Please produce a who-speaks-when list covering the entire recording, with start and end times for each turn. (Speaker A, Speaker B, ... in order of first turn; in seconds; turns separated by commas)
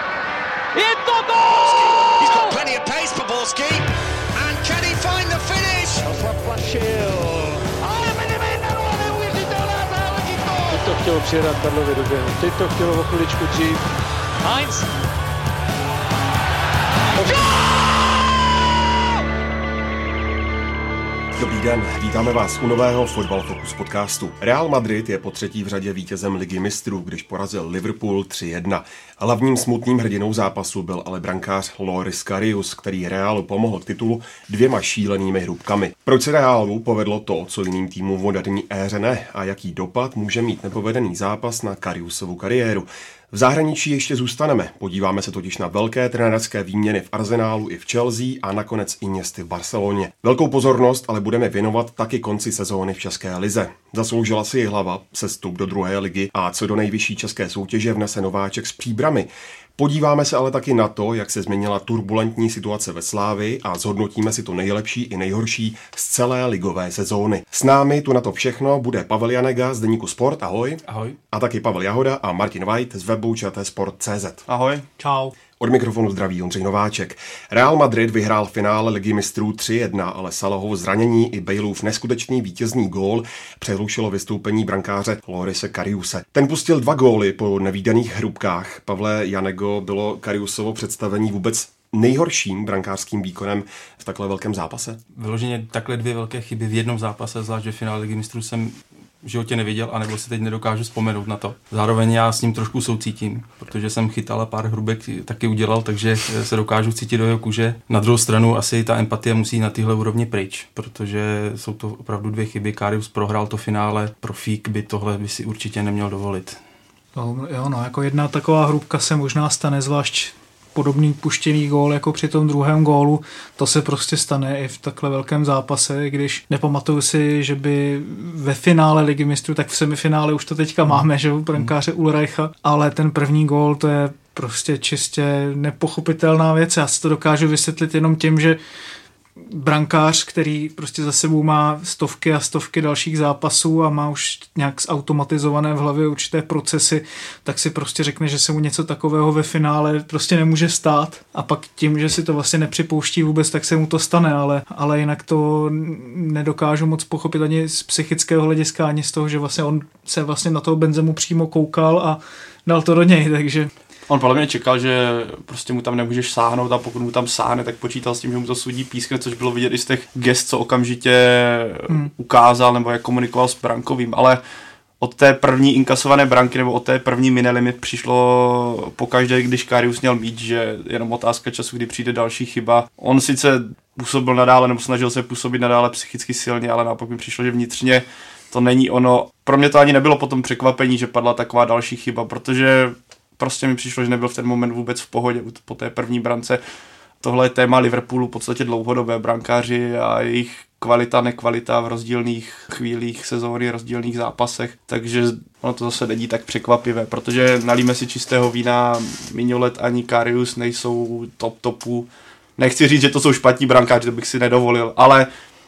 Speaker A: 0.7-1.7, Speaker B: 1.6-6.1, Speaker C: 6.1-13.8, Speaker A: 7.8-8.1, Speaker A: 8.7-9.4, Speaker C: 14.4-14.9, Speaker D: 21.4-70.8, Speaker E: 70.9-71.2, Speaker D: 71.3-74.4, Speaker F: 74.5-74.9, Speaker G: 75.0-75.3, Speaker D: 75.6-95.0, Speaker E: 95.1-116.6, Speaker G: 117.1-138.6, Speaker G: 139.4-163.7, Speaker F: 164.1-174.4, Speaker F: 175.0-196.6, Speaker F: 197.2-215.3